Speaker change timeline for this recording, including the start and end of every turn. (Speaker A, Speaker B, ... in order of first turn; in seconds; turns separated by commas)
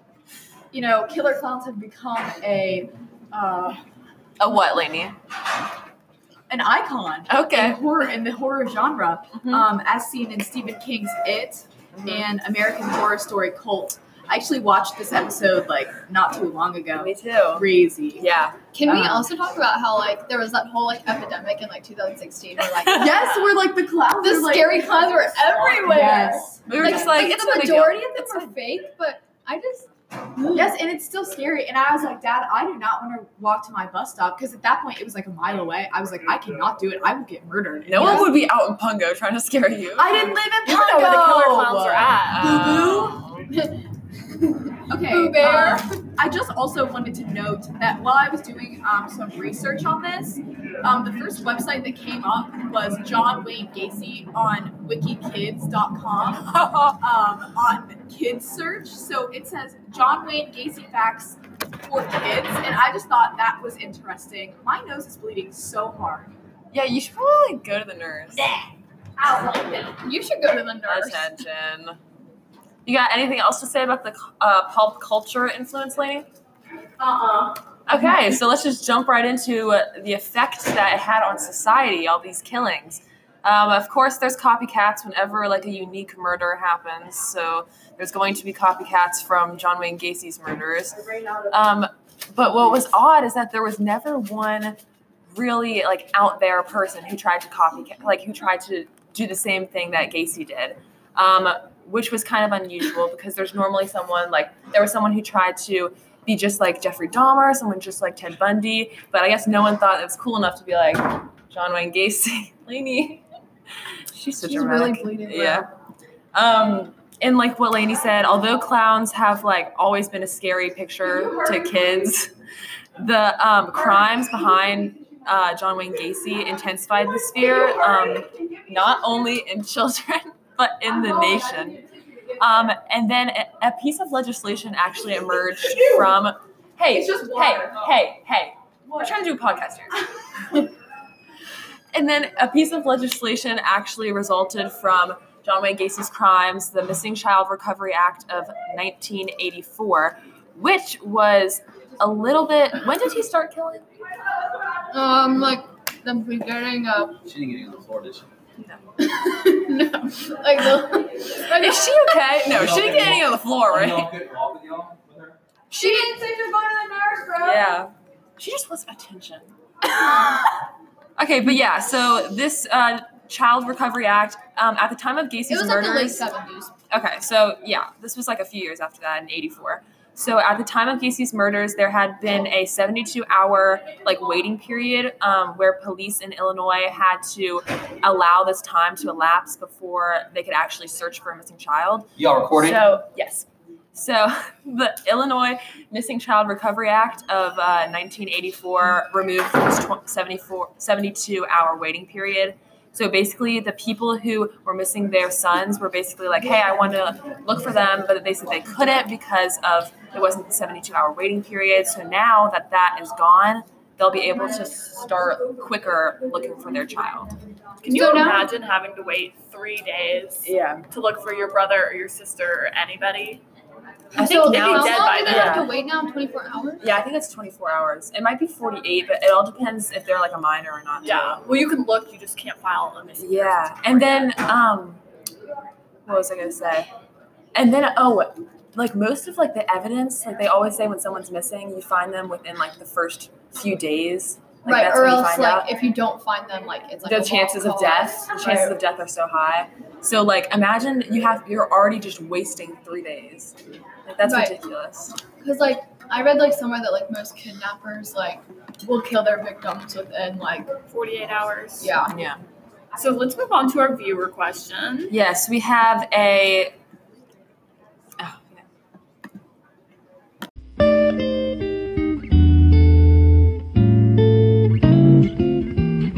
Speaker A: 0.7-3.8, Speaker B: 4.4-5.2, Speaker A: 6.5-18.2, Speaker B: 7.3-7.8, Speaker B: 9.3-9.7, Speaker B: 11.9-12.3, Speaker B: 16.9-18.6, Speaker C: 18.7-23.6, Speaker A: 18.8-19.3, Speaker A: 22.9-26.6, Speaker C: 24.2-30.7, Speaker B: 26.6-28.5, Speaker A: 30.5-38.4, Speaker B: 37.9-40.3, Speaker C: 38.0-38.3, Speaker A: 39.9-43.2, Speaker D: 40.6-42.8, Speaker B: 42.2-43.4, Speaker C: 43.5-43.8, Speaker C: 44.5-46.0, Speaker A: 44.9-66.3, Speaker B: 66.7-68.5, Speaker A: 68.4-68.6, Speaker A: 69.2-70.0, Speaker C: 70.0-71.3, Speaker B: 70.8-72.0, Speaker B: 72.8-76.3, Speaker A: 77.0-77.6, Speaker B: 77.9-91.0, Speaker A: 90.9-91.6, Speaker B: 91.5-94.8, Speaker B: 95.3-113.2, Speaker B: 114.1-115.7, Speaker C: 114.4-115.7, Speaker B: 116.3-122.3, Speaker B: 123.0-131.8, Speaker A: 127.4-129.0, Speaker B: 132.4-140.0, Speaker A: 135.7-136.2, Speaker A: 136.9-137.9, Speaker A: 138.9-139.2, Speaker B: 141.9-153.8, Speaker C: 154.9-157.2, Speaker E: 157.2-158.3, Speaker C: 159.0-162.3, Speaker B: 161.5-164.1, Speaker E: 162.5-165.3, Speaker B: 165.7-166.1, Speaker C: 165.7-167.6, Speaker B: 167.4-169.5, Speaker B: 171.2-176.2, Speaker C: 175.5-176.7, Speaker B: 176.9-217.3, Speaker E: 192.2-192.8, Speaker D: 217.8-223.4, Speaker C: 217.9-218.5, Speaker B: 220.4-220.8, Speaker C: 224.1-226.9, Speaker B: 224.2-225.7, Speaker D: 224.2-225.7, Speaker B: 226.8-231.4, Speaker D: 231.0-234.4, Speaker B: 233.2-235.0, Speaker B: 236.1-236.9, Speaker B: 237.5-245.7, Speaker C: 244.6-248.8, Speaker B: 247.0-255.1, Speaker C: 254.2-254.6, Speaker C: 255.3-260.7, Speaker D: 260.9-262.0, Speaker C: 261.8-262.1, Speaker B: 262.1-262.4, Speaker D: 262.9-265.1, Speaker B: 265.1-266.7, Speaker B: 268.2-268.6